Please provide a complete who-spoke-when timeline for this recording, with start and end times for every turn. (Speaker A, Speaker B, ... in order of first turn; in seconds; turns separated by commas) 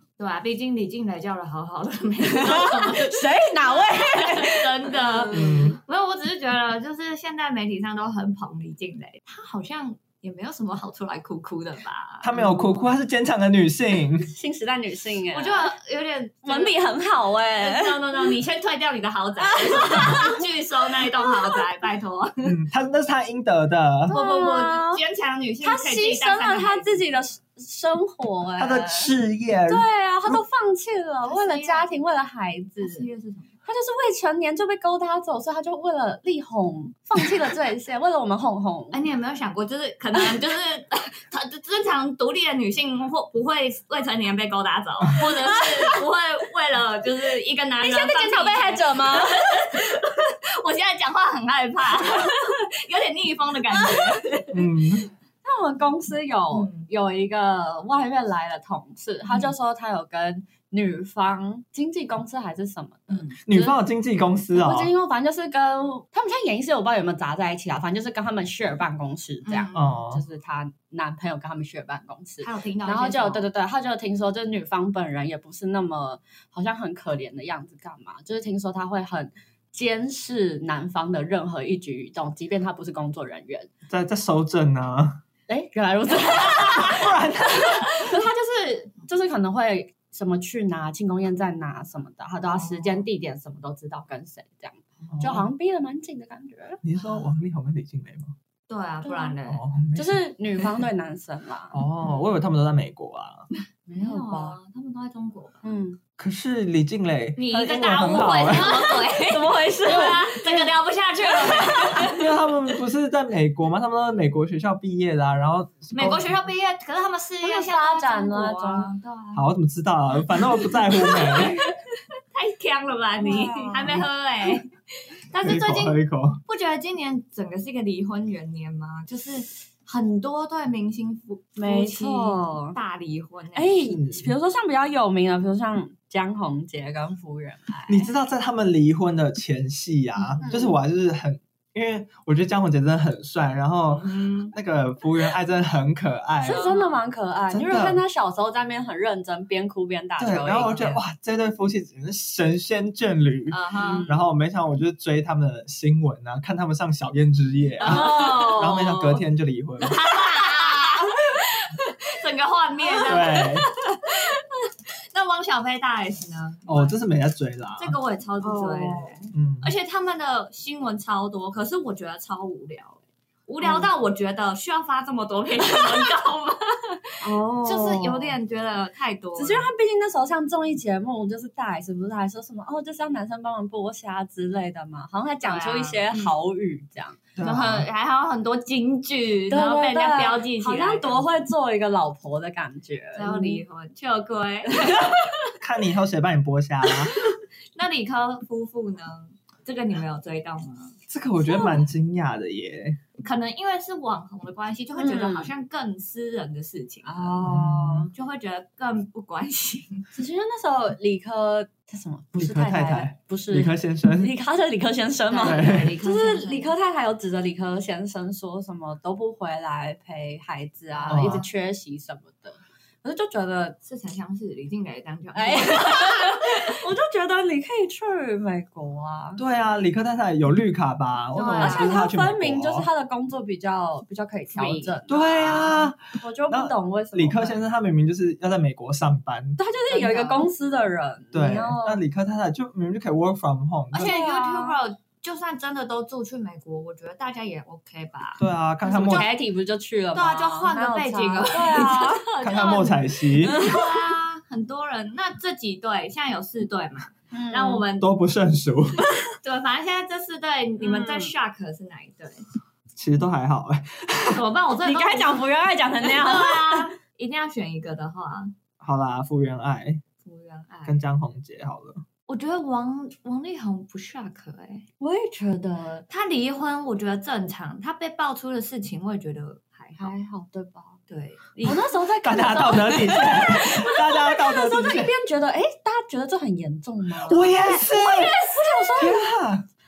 Speaker A: 0.2-12.3, Speaker B: 2.2-5.7, Speaker C: 5.3-5.8, Speaker C: 12.2-14.3, Speaker B: 12.3-12.8, Speaker B: 14.3-15.7, Speaker A: 15.3-16.8, Speaker B: 16.4-18.3, Speaker A: 17.6-22.6, Speaker B: 19.4-20.4, Speaker B: 21.1-21.6, Speaker C: 22.4-24.1, Speaker A: 24.1-27.0, Speaker B: 24.1-25.0, Speaker B: 25.6-29.1, Speaker C: 28.6-30.4, Speaker B: 29.7-33.1, Speaker A: 31.2-31.9, Speaker A: 32.8-33.5, Speaker B: 33.6-39.0, Speaker A: 38.9-54.8, Speaker B: 45.2-46.0, Speaker B: 47.8-49.4, Speaker B: 53.7-54.2, Speaker C: 54.5-55.1, Speaker B: 55.4-63.8, Speaker A: 56.5-56.9, Speaker A: 63.1-63.4, Speaker C: 63.5-64.9, Speaker B: 64.5-83.7, Speaker A: 69.5-70.0, Speaker C: 69.7-70.2, Speaker A: 72.4-73.5, Speaker C: 83.9-85.2, Speaker B: 85.5-96.8, Speaker A: 86.2-87.0, Speaker C: 86.6-87.9, Speaker A: 88.0-88.3, Speaker A: 92.5-93.0, Speaker C: 95.1-95.5, Speaker C: 96.8-98.3, Speaker A: 97.0-97.2, Speaker A: 98.7-99.6, Speaker B: 99.0-99.4, Speaker C: 99.5-100.8, Speaker B: 100.0-101.8, Speaker C: 101.7-103.5, Speaker B: 103.9-104.6, Speaker A: 104.0-105.6, Speaker B: 105.6-106.0, Speaker C: 106.2-108.7, Speaker A: 107.4-112.3, Speaker B: 107.6-112.2, Speaker C: 112.0-116.3, Speaker A: 116.0-119.5, Speaker B: 117.4-118.9, Speaker C: 119.3-121.6, Speaker A: 120.4-121.7, Speaker B: 121.0-121.5, Speaker A: 122.3-124.7, Speaker B: 123.2-124.0, Speaker A: 125.3-133.9, Speaker C: 125.4-126.4, Speaker B: 131.6-132.8, Speaker B: 133.6-138.1, Speaker C: 133.9-134.3, Speaker C: 137.9-146.7, Speaker B: 140.4-140.8, Speaker A: 144.0-144.5, Speaker A: 146.4-147.0, Speaker B: 146.4-151.0, Speaker C: 147.5-148.0, Speaker C: 150.2-160.0, Speaker A: 153.5-154.1, Speaker B: 153.8-154.1, Speaker B: 157.8-159.2, Speaker A: 157.8-158.6, Speaker A: 159.8-167.0, Speaker B: 160.4-161.2, Speaker C: 163.0-163.7, Speaker C: 166.7-168.0, Speaker A: 167.8-179.7, Speaker B: 168.4-169.3, Speaker C: 169.3-169.7, Speaker B: 173.6-173.9, Speaker B: 177.2-178.4, Speaker B: 179.4-187.2, Speaker A: 185.4-186.4, Speaker C: 187.4-187.9, Speaker A: 187.4-191.3, Speaker B: 189.5-193.6, Speaker A: 193.2-195.2, Speaker B: 194.7-195.2, Speaker C: 195.6-197.2, Speaker A: 197.8-200.9, Speaker C: 201.1-203.0, Speaker A: 201.5-201.8, Speaker A: 203.2-207.4, Speaker B: 205.0-205.5, Speaker B: 207.1-208.1, Speaker C: 207.4-208.1, Speaker A: 208.1-210.1, Speaker B: 210.1-223.8, Speaker C: 212.3-214.3, Speaker A: 215.3-216.7, Speaker C: 215.4-216.0, Speaker C: 221.1-221.5, Speaker A: 223.8-226.7, Speaker B: 225.3-229.4, Speaker C: 229.4-232.9, Speaker A: 231.4-232.0, Speaker B: 231.4-237.6, Speaker A: 234.5-235.0, Speaker C: 235.1-239.6, Speaker B: 239.6-242.0, Speaker A: 239.9-240.5, Speaker C: 241.3-244.2, Speaker A: 243.9-249.3, Speaker B: 244.0-244.8, Speaker C: 248.4-249.3, Speaker B: 248.9-252.2, Speaker A: 250.1-258.1, Speaker C: 252.4-253.6, Speaker B: 253.4-254.1, Speaker B: 257.3-257.9, Speaker C: 258.0-259.0, Speaker A: 259.4-262.4, Speaker B: 260.8-261.3, Speaker C: 263.0-264.4, Speaker A: 264.3-265.5, Speaker B: 264.8-266.9, Speaker A: 266.0-268.5, Speaker C: 268.8-270.0, Speaker A: 270.2-271.0, Speaker C: 270.9-272.1, Speaker A: 272.3-274.9, Speaker B: 275.0-276.1, Speaker A: 276.1-280.1, Speaker B: 280.0-281.0, Speaker A: 281.1-281.9, Speaker B: 281.6-289.3, Speaker C: 282.2-285.1, Speaker C: 287.2-288.4, Speaker A: 287.3-288.4, Speaker C: 289.0-289.7